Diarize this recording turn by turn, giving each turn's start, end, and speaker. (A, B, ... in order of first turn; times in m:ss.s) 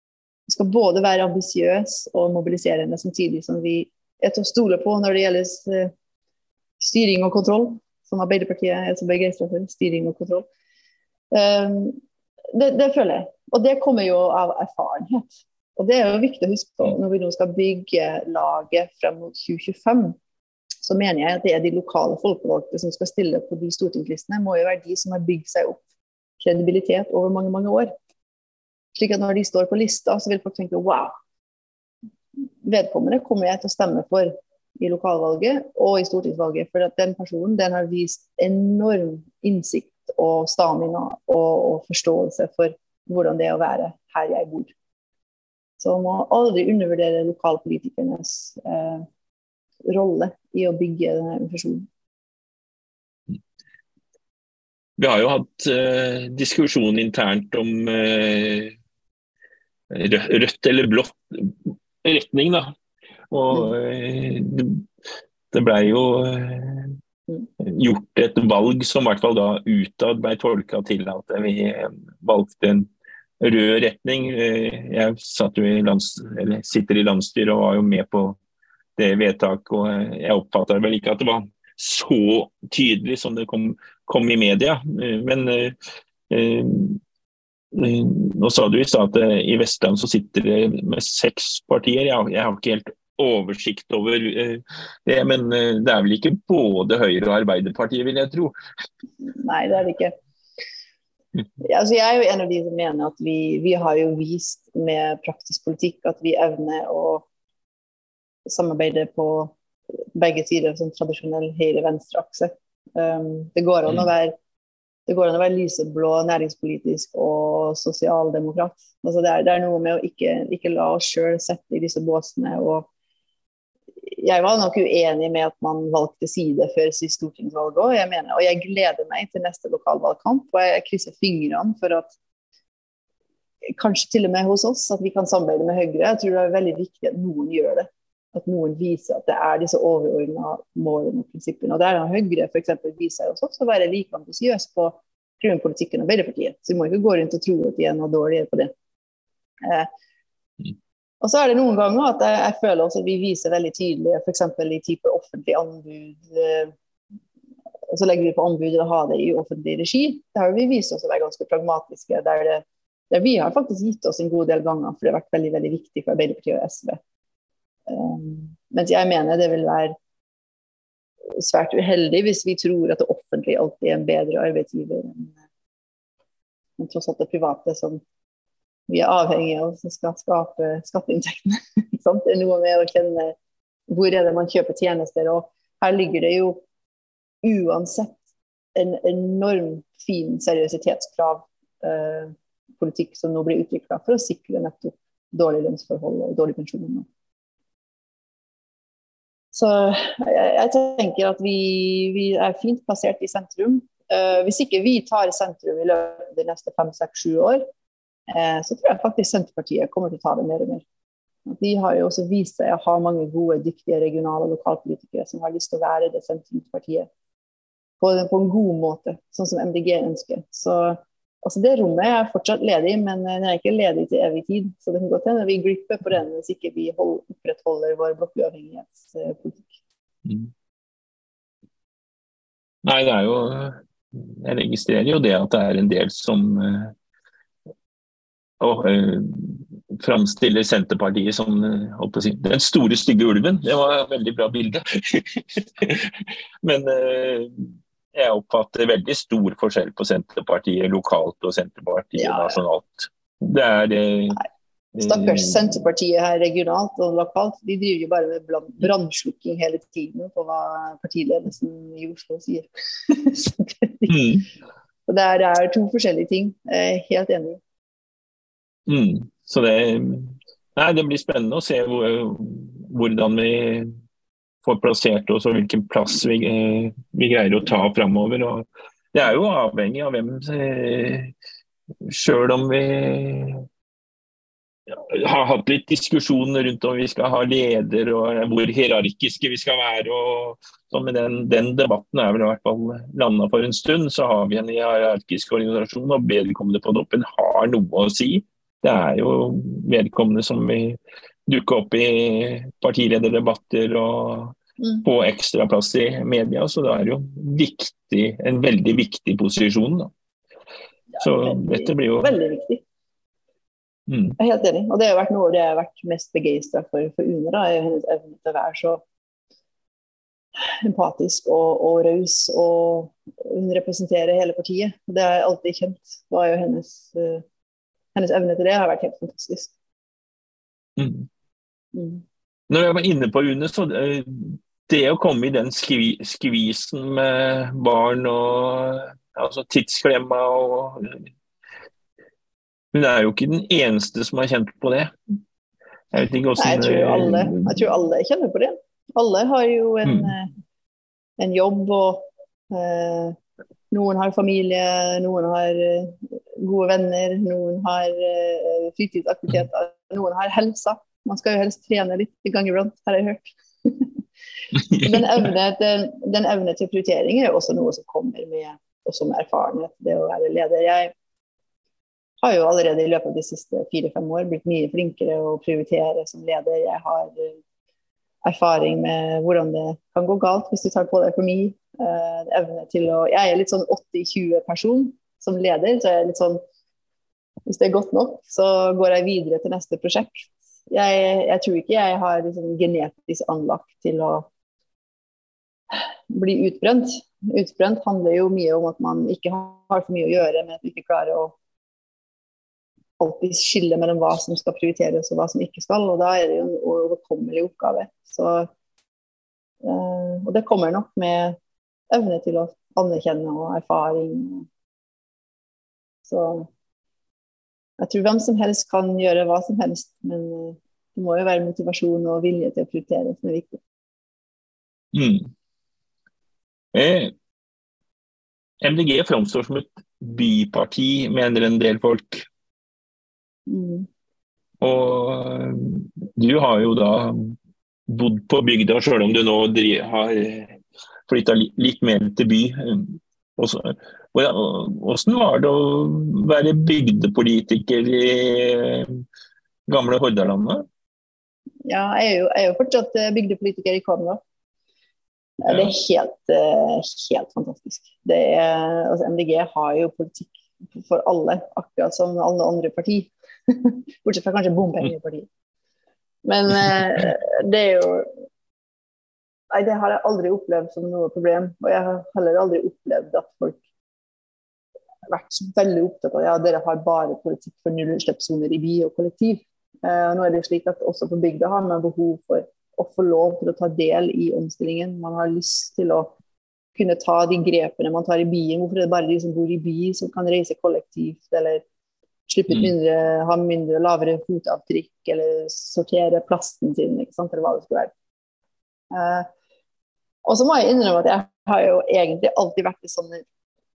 0:00.5-0:05.9 A
0:06.8-0:10.4 A
0:11.3-0:12.0 A
0:12.5-0:20.2 A
0:20.8-0:25.8 A
0:26.4-0:27.9 A
0:28.9-0:31.1 A
0:32.6-0:44.7 A
0:45.8-0:49.1 A
0:49.9-0:51.9 A
0:55.0-0:58.7 B
0:59.9-1:02.7 B
1:03.3-1:04.9 B
1:05.5-1:07.0 B
1:07.6-1:12.9 B
1:13.4-1:18.4 B
1:19.0-1:25.8 B
1:26.3-1:27.0 B
1:27.7-1:38.5 B
1:39.2-1:40.1 A
1:41.6-1:47.2 A
1:48.4-1:49.5 A
1:50.1-1:54.4 A
1:55.1-2:02.9 A
2:04.1-2:12.1 A
2:13.7-2:28.7 A
2:29.6-2:29.9 A
2:31.2-2:36.7 A
2:37.9-2:47.0 A
2:47.9-2:49.9 A
2:51.4-2:55.4 A
2:56.8-2:58.0 A
2:58.9-3:03.4 A
3:03.9-3:06.6 A
3:07.4-3:08.2 A
3:08.7-3:17.1 A
3:19.5-3:27.6 A
3:28.3-3:30.8 A
3:31.4-3:37.1 A
3:38.0-3:49.7 A
3:50.2-3:50.5 B
3:52.8-3:56.9 B
3:58.6-4:14.4 B
4:12.2-4:12.6 A
4:14.9-4:24.3 A
4:15.0-4:15.6 B
4:24.1-4:24.4 B
4:25.1-4:27.6 A
4:28.8-4:33.9 B
4:34.6-4:41.3 B
4:42.0-4:43.6 B
4:44.9-5:10.1 B
5:11.2-5:12.8 A
5:11.2-5:12.4 B
5:14.1-5:14.4 B
5:14.4-5:19.0 A
5:20.6-5:27.4 A
5:28.1-5:29.7 A
5:31.0-5:31.3 B
5:31.9-5:32.2 A
5:32.7-5:41.2 B
5:42.9-5:45.1 B
5:46.1-5:47.8 B
5:46.6-5:50.5 A
5:50.0-5:50.3 B
5:51.4-5:53.4 A
5:53.9-6:04.1 A
6:04.9-6:11.1 A
6:12.4-6:17.6 A
6:18.4-6:26.6 A
6:27.6-6:34.4 A
6:35.9-6:41.6 A
6:43.2-6:48.7 A
6:49.8-6:51.6 A
6:52.1-6:54.7 A
6:56.2-6:56.7 A
6:58.0-7:03.8 A
7:05.1-7:05.5 B
7:06.9-7:07.3 B
7:08.8-7:12.5 B
7:13.7-7:14.1 A
7:14.8-7:17.6 B
7:18.1-7:29.2 B
7:29.9-7:30.8 B
7:31.8-7:34.4 A
7:35.6-7:45.5 A
7:46.4-7:48.3 A
7:49.7-7:53.8 A
7:55.3-8:06.3 A
8:06.9-8:11.8 A
8:12.5-8:18.1 A
8:12.7-8:12.9 B
8:19.1-8:19.5 A
8:20.4-8:23.4 A